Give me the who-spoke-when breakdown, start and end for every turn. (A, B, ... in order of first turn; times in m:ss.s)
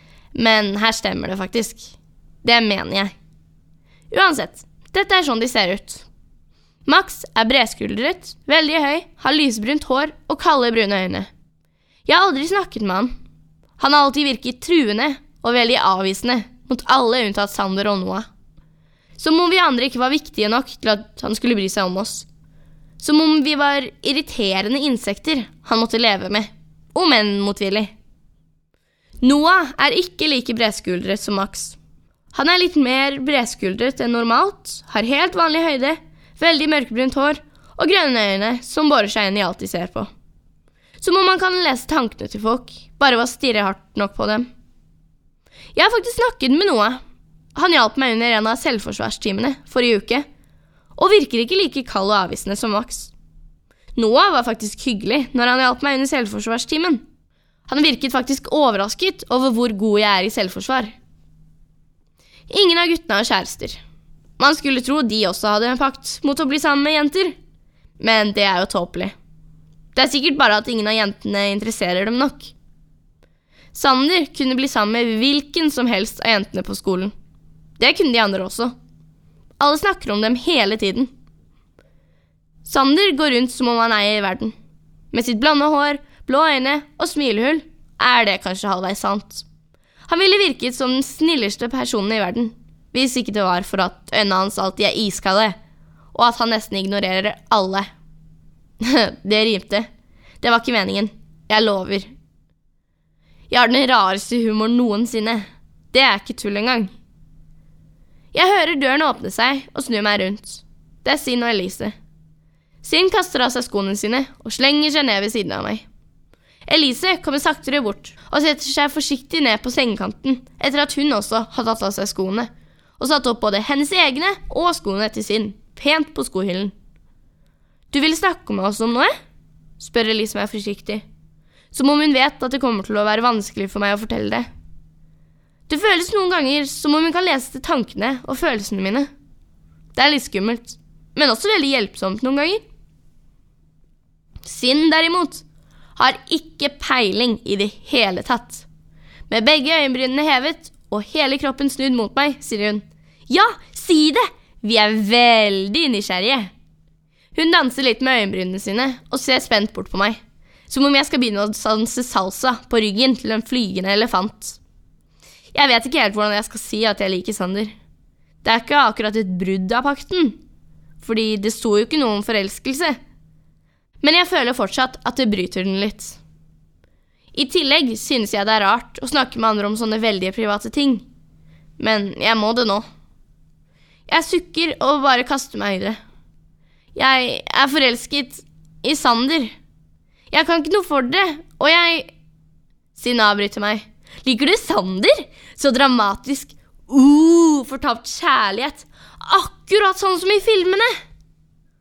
0:00.3-0:03.1 A
0:04.1-0:06.1 A
0:06.8-0:11.3 A
0:12.1-0:13.1 A
0:13.8-0:18.3 A
0:19.2-0:22.3 A
0:23.0-0:27.9 A
0:29.2-0:31.8 A
0:32.3-0:40.1 A
0:41.0-0:44.5 A
0:45.8-0:47.0 A
0:47.6-0:50.2 A
0:51.0-0:53.1 A
0:54.0-0:57.0 A
0:57.7-1:01.0 A
1:02.5-1:03.8 A
1:04.4-1:07.4 A
1:08.0-1:09.1 A
1:10.0-1:12.5 A
1:13.7-1:17.1 A
1:17.8-1:18.7 A
1:19.6-1:21.1 A
1:22.6-1:24.5 A
1:25.1-1:29.4 A
1:30.1-1:35.6 A
1:36.1-1:37.9 A
1:38.8-1:39.9 A
1:40.4-1:42.1 A
1:43.5-1:46.9 A
1:48.3-1:51.9 A
1:52.8-1:55.9 A
1:56.7-2:06.7 A
2:07.9-2:09.1 A
2:09.8-2:11.0 A
2:11.7-2:14.5 A
2:15.7-2:19.1 A
2:20.0-2:22.6 A
2:24.4-2:25.4 A
2:26.0-2:28.7 A
2:29.3-2:36.5 A
2:37.4-2:44.6 A
2:45.5-2:47.8 A
2:48.4-2:50.4 A
2:51.0-2:53.0 A
2:54.0-2:56.2 A
2:57.3-3:01.1 A
3:01.8-3:02.8 A
3:04.1-3:06.0 A
3:07.0-3:09.6 A
3:10.3-3:12.1 A
3:13.0-3:20.9 A